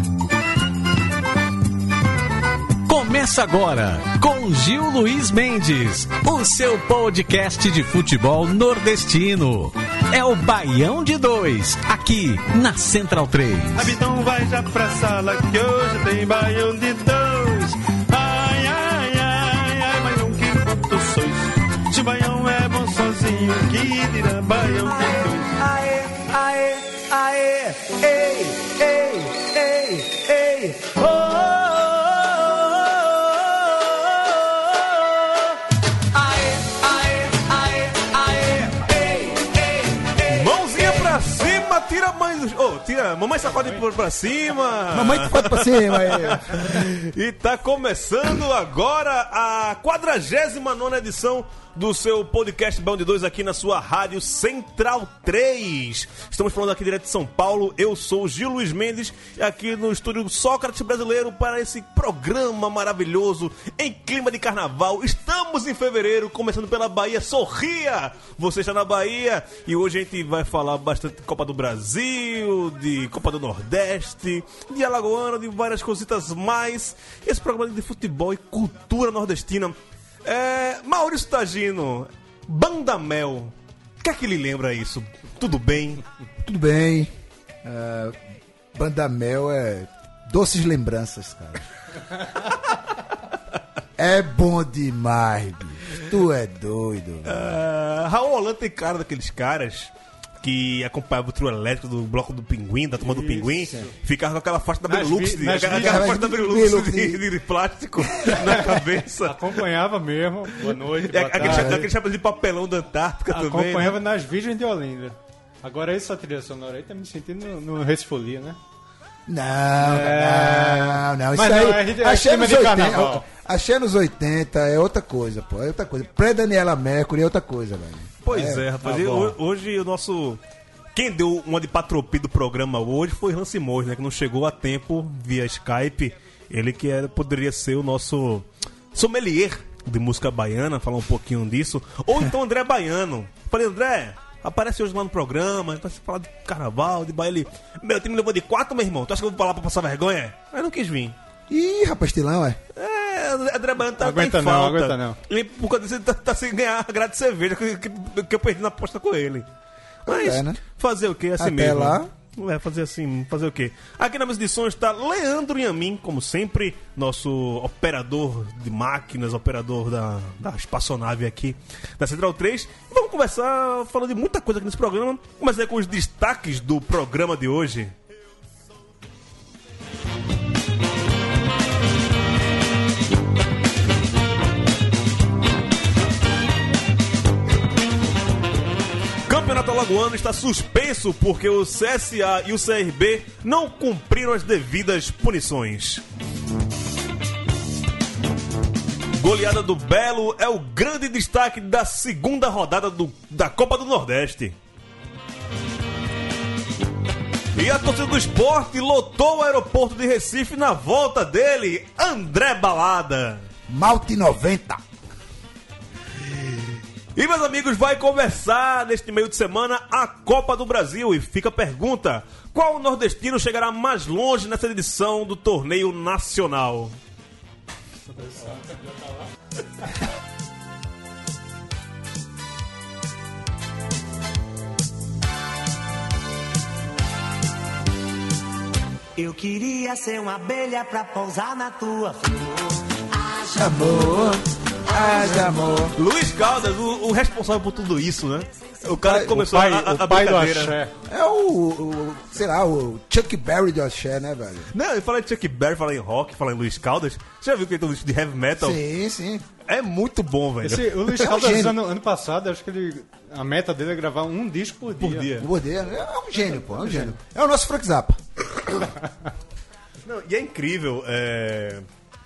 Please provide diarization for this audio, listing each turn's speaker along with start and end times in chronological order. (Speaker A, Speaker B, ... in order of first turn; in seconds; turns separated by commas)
Speaker A: 2.8-14.0, Speaker B: 13.8-25.6, Speaker C: 24.8-35.2, Speaker C: 36.1-41.0, Speaker D: 40.2-86.0, Speaker E: 43.5-43.8, Speaker F: 44.9-46.8, Speaker F: 86.4-87.1, Speaker F: 87.6-88.2, Speaker F: 88.7-91.6, Speaker F: 94.0-97.4, Speaker D: 97.2-109.6, Speaker E: 103.0-103.9, Speaker E: 104.8-106.2, Speaker F: 105.7-107.2, Speaker F: 108.1-108.6, Speaker E: 108.2-111.8, Speaker D: 110.7-114.0, Speaker F: 111.4-111.9, Speaker E: 113.3-118.6, Speaker F: 119.3-129.3, Speaker E: 119.8-123.2, Speaker D: 128.2-130.4, Speaker D: 130.9-151.2, Speaker F: 151.5-152.6, Speaker D: 152.7-159.4, Speaker E: 154.0-155.2, Speaker D: 160.1-177.9, Speaker F: 160.1-160.6, Speaker F: 161.4-162.1, Speaker D: 189.3-196.0, Speaker D: 199.2-204.6, Speaker D: 207.5-213.4, Speaker F: 213.7-214.8, Speaker D: 217.1-226.9, Speaker E: 228.1-229.2, Speaker C: 239.2-243.5, Speaker F: 243.5-246.0, Speaker D: 245.9-250.8, Speaker F: 248.9-249.4, Speaker E: 249.3-250.9, Speaker F: 251.1-254.7, Speaker D: 254.7-258.8, Speaker F: 258.6-259.4, Speaker D: 259.6-261.3, Speaker E: 260.6-265.4, Speaker F: 261.1-261.8, Speaker D: 265.0-265.5, Speaker F: 265.4-268.9, Speaker E: 266.9-267.1, Speaker D: 270.0-271.8